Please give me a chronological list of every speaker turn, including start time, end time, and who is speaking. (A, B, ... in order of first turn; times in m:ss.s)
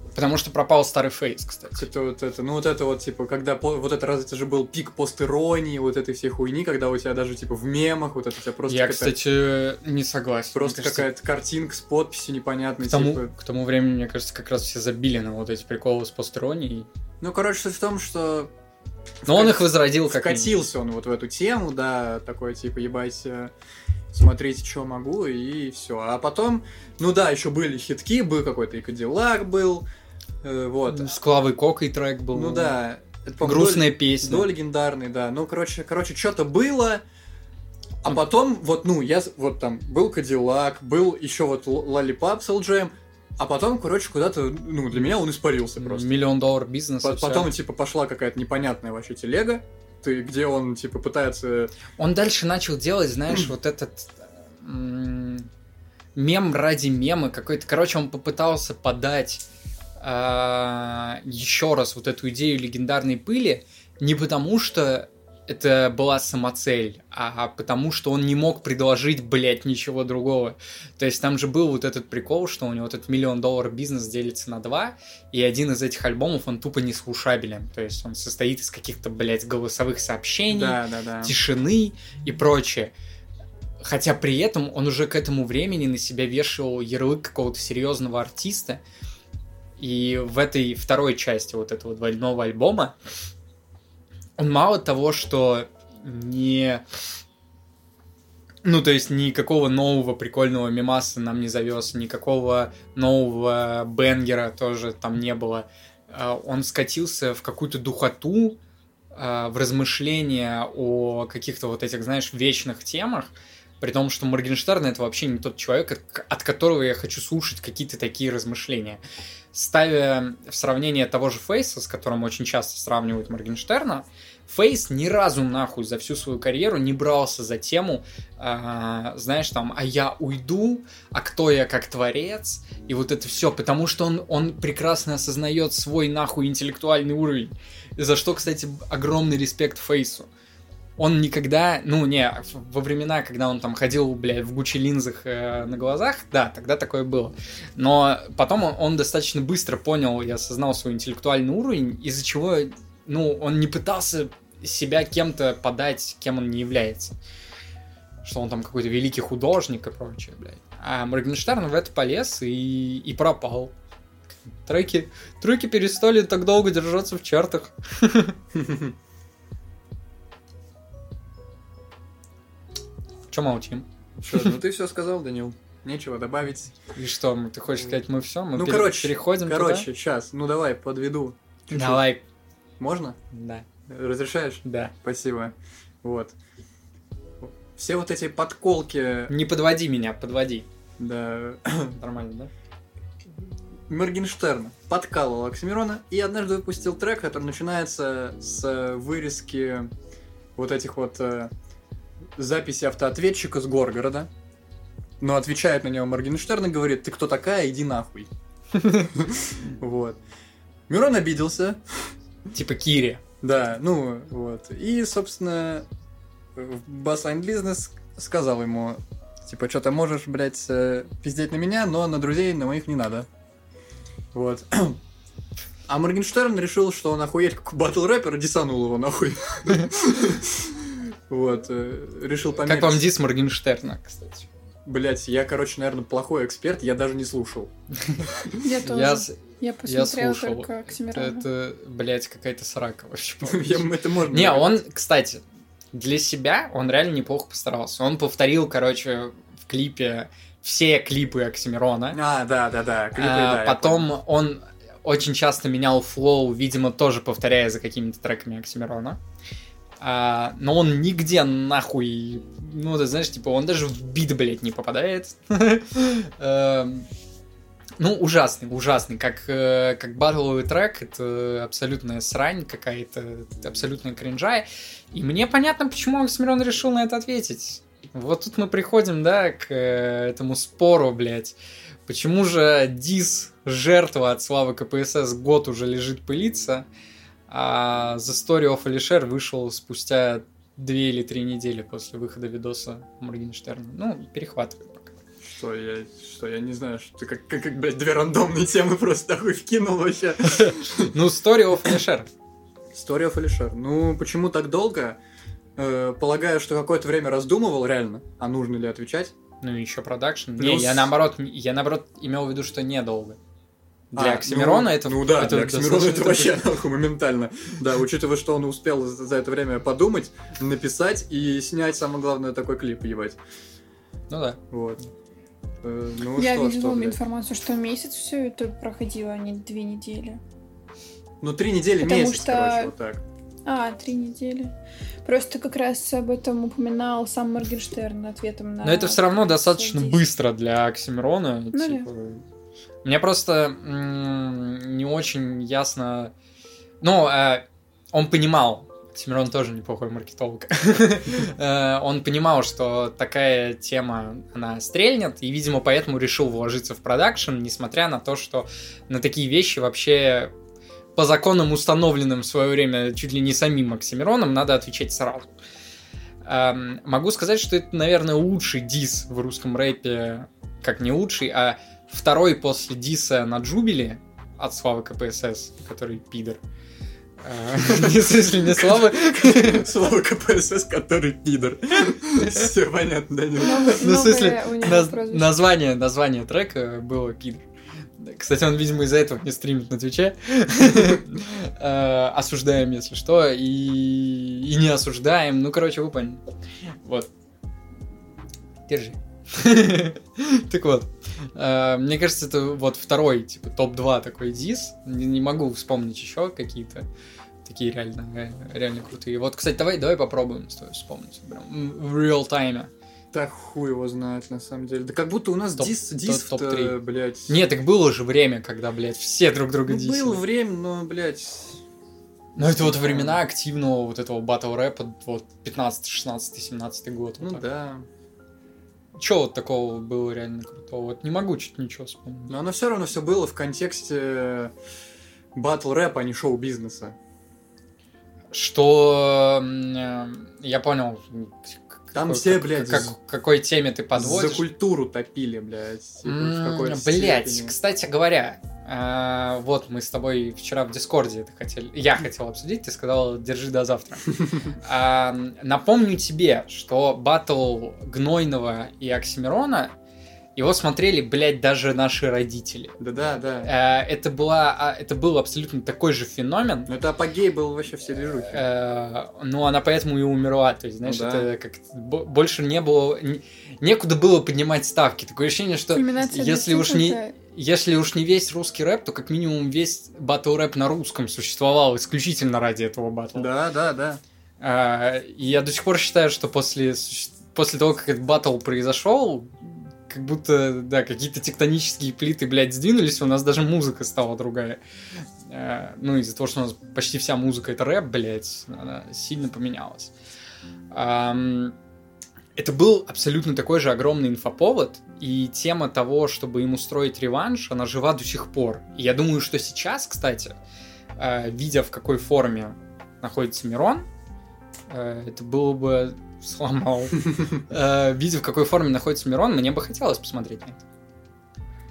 0:00.1-0:01.8 A
0:01.7-0:09.2 B
0:08.7-0:11.1 A
0:10.5-0:13.3 B
0:12.8-0:16.9 A
0:17.2-0:18.5 B
0:19.2-0:23.5 B
0:19.2-0:20.6 A
0:24.1-0:29.8 B
0:30.4-0:31.1 B
0:30.9-0:32.8 A
0:32.3-0:37.0 B
0:33.4-0:34.5 A
0:38.0-0:46.1 B
0:45.8-0:47.5 A
0:47.0-0:51.7 B
0:52.0-0:55.5 A
0:56.1-0:59.4 A
1:00.0-1:22.9 A
1:20.5-1:21.4 B
1:23.8-1:28.8 A
1:29.8-1:32.9 A
1:34.4-1:36.8 A
1:38.6-1:48.6 A
1:49.1-1:59.0 A
1:59.5-2:20.3 A
2:21.0-2:37.2 A
2:38.2-2:43.7 A
2:44.6-2:48.4 A
2:48.5-2:48.9 B
2:53.3-2:54.6 A
2:54.2-2:56.7 B
2:56.9-2:59.9 A
2:58.5-3:02.0 B
3:01.7-3:02.2 A
3:02.8-3:03.2 B
3:03.3-3:03.6 A
3:03.8-3:06.3 B
3:04.6-3:04.9 A
3:07.4-3:09.3 B
3:09.3-3:10.7 A
3:11.0-3:12.0 B
3:11.9-3:12.5 A
3:13.9-3:19.9 B
3:20.6-3:21.5 B
3:22.4-3:24.3 B
3:25.2-3:28.3 B
3:28.8-3:29.1 A
3:29.1-3:30.2 B
3:30.9-3:31.8 B
3:32.5-3:33.2 A
3:33.4-3:35.9 B
3:36.5-3:43.3 B
3:44.3-3:45.0 B
3:45.9-3:53.1 B
3:52.6-3:54.5 A
3:54.8-3:58.6 B
3:58.6-4:01.4 C
3:58.8-4:05.4 A
4:03.4-4:04.8 B
4:05.9-4:12.2 A
4:12.1-4:14.1 B
4:13.1-4:19.2 A
4:20.0-4:27.1 A
4:28.0-4:41.6 A
4:42.1-4:46.8 A
4:47.5-4:55.1 A
4:55.4-5:01.1 B
5:00.6-5:02.3 A
5:02.9-5:05.2 B
5:05.8-5:09.3 B
5:09.6-5:13.4 A
5:10.6-5:11.1 B
5:14.1-5:16.6 A
5:14.1-5:23.4 B
5:24.3-5:24.6 A
5:24.7-5:25.0 B
5:25.8-5:27.2 B
5:26.4-5:30.4 C
5:31.4-5:33.2 B
5:32.0-5:32.9 C
5:33.6-5:34.7 C
5:35.2-5:40.2 C
5:38.8-5:42.4 A
5:41.7-5:42.1 C
5:43.0-5:46.3 A
5:47.0-6:00.5 A
6:01.2-6:05.5 A
6:06.4-6:16.6 A
6:17.4-6:19.9 A
6:17.8-6:24.0 B
6:23.6-6:25.5 C
6:23.6-6:27.6 A
6:28.2-6:36.4 A
6:37.0-6:37.3 A
6:38.9-6:47.0 A
6:47.6-6:52.9 A
6:53.3-6:57.6 B
6:55.8-6:57.0 A
6:57.5-7:00.4 A
6:59.9-7:01.8 B
7:02.6-7:03.4 B
7:02.6-7:07.6 A
7:07.4-7:08.0 B
7:09.2-7:12.5 A
7:12.5-7:14.7 B
7:15.5-7:17.2 B
7:18.5-7:24.7 A
7:22.1-7:23.1 B
7:24.1-7:27.8 B
7:26.2-7:39.9 A
7:40.6-7:43.0 A
7:43.0-7:43.7 B
7:43.6-7:46.9 A
7:46.9-7:48.6 B
7:48.4-8:03.5 A
7:51.0-7:51.5 B
7:55.9-7:57.3 C
8:03.3-8:04.2 B
8:04.6-8:14.8 A
8:15.5-8:20.1 A
8:20.9-8:21.7 A
8:22.6-8:30.5 A
8:31.2-8:34.1 A
8:34.9-8:40.8 A